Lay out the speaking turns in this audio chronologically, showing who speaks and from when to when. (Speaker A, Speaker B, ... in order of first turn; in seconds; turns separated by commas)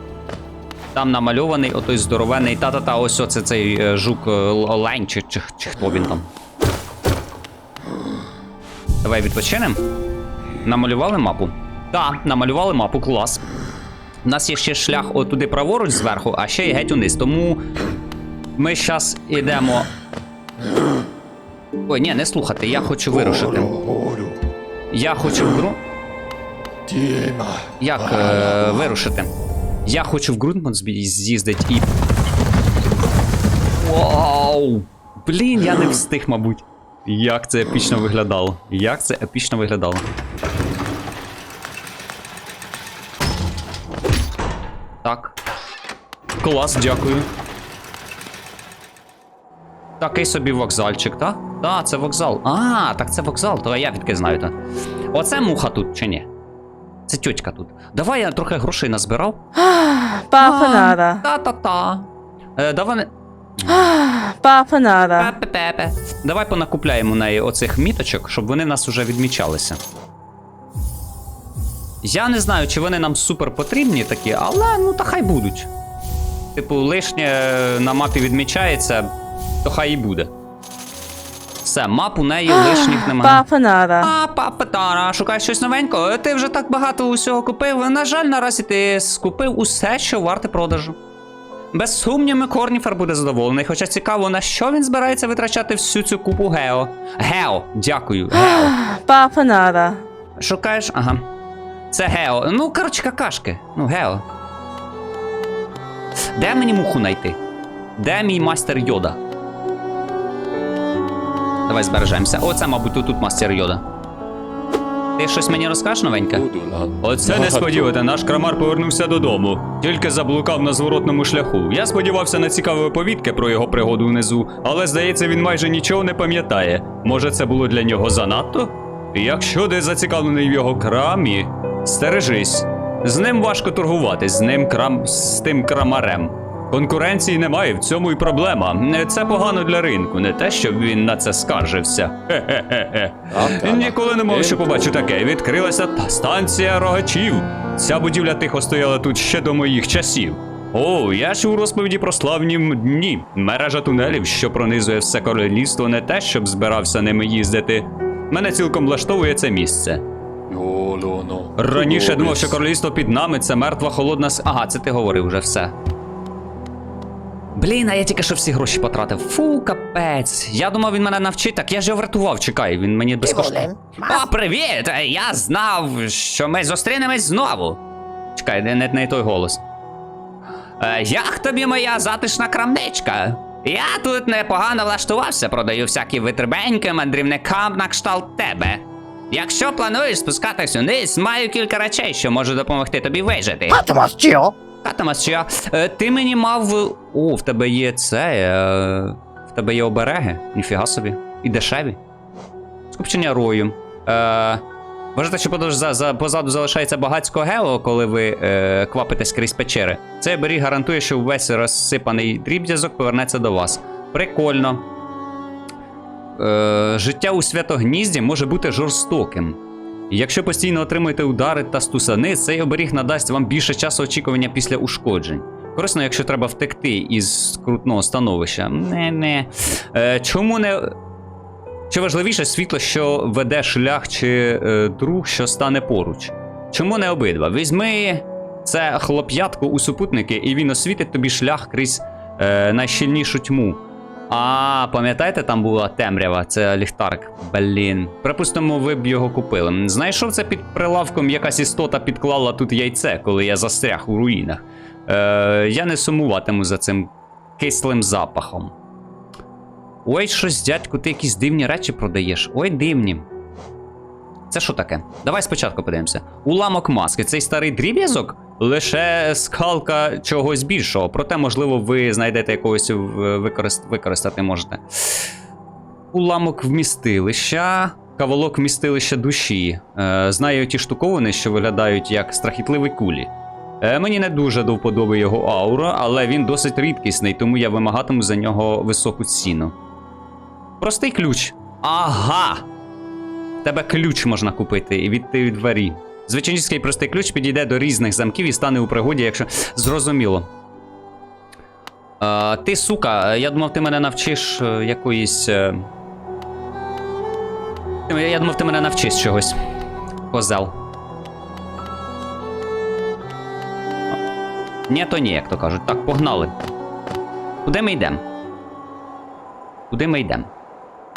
Speaker A: 0.9-6.3, Speaker A: 9.0-9.8, Speaker A: 10.6-13.4, Speaker A: 14.2-17.6, Speaker A: 18.6-19.9, Speaker A: 21.9-23.8, Speaker A: 24.9-25.8, Speaker B: 26.9-27.4, Speaker A: 27.8-29.3, Speaker A: 29.8-31.9, Speaker A: 33.8-40.0, Speaker A: 45.0-45.4, Speaker A: 46.4-47.3, Speaker A: 50.0-54.6, Speaker A: 55.1-56.3, Speaker A: 57.1-59.4, Speaker C: 59.5-61.2, Speaker A: 60.4-63.6, Speaker C: 63.6-65.3, Speaker A: 65.2-69.8, Speaker A: 72.0-75.7, Speaker A: 76.5-80.3, Speaker A: 81.6-83.4, Speaker C: 82.5-84.1, Speaker A: 84.0-91.0, Speaker A: 91.7-98.8, Speaker C: 98.3-100.0, Speaker A: 100.4-101.2, Speaker A: 101.9-104.2, Speaker A: 106.3-107.4, Speaker A: 108.0-109.2, Speaker A: 111.7-113.8, Speaker A: 115.2-116.4, Speaker B: 116.3-117.9, Speaker A: 117.0-160.0, Speaker B: 143.3-144.7, Speaker B: 160.5-162.6, Speaker A: 161.6-165.7, Speaker A: 167.6-177.8, Speaker D: 173.2-174.2, Speaker A: 178.3-179.6, Speaker A: 180.8-193.8, Speaker D: 193.7-194.6, Speaker A: 194.8-202.0, Speaker A: 202.9-204.6, Speaker A: 205.1-214.8, Speaker A: 216.4-219.6, Speaker A: 220.1-230.9, Speaker A: 231.9-258.7, Speaker A: 260.1-263.3, Speaker A: 264.5-275.2, Speaker A: 276.1-289.7, Speaker A: 290.8-292.7, Speaker A: 293.6-300.5, Speaker A: 302.2-305.9, Speaker A: 308.1-309.6, Speaker A: 310.3-310.8, Speaker A: 314.9-316.6, Speaker A: 317.6-318.2, Speaker A: 319.9-320.5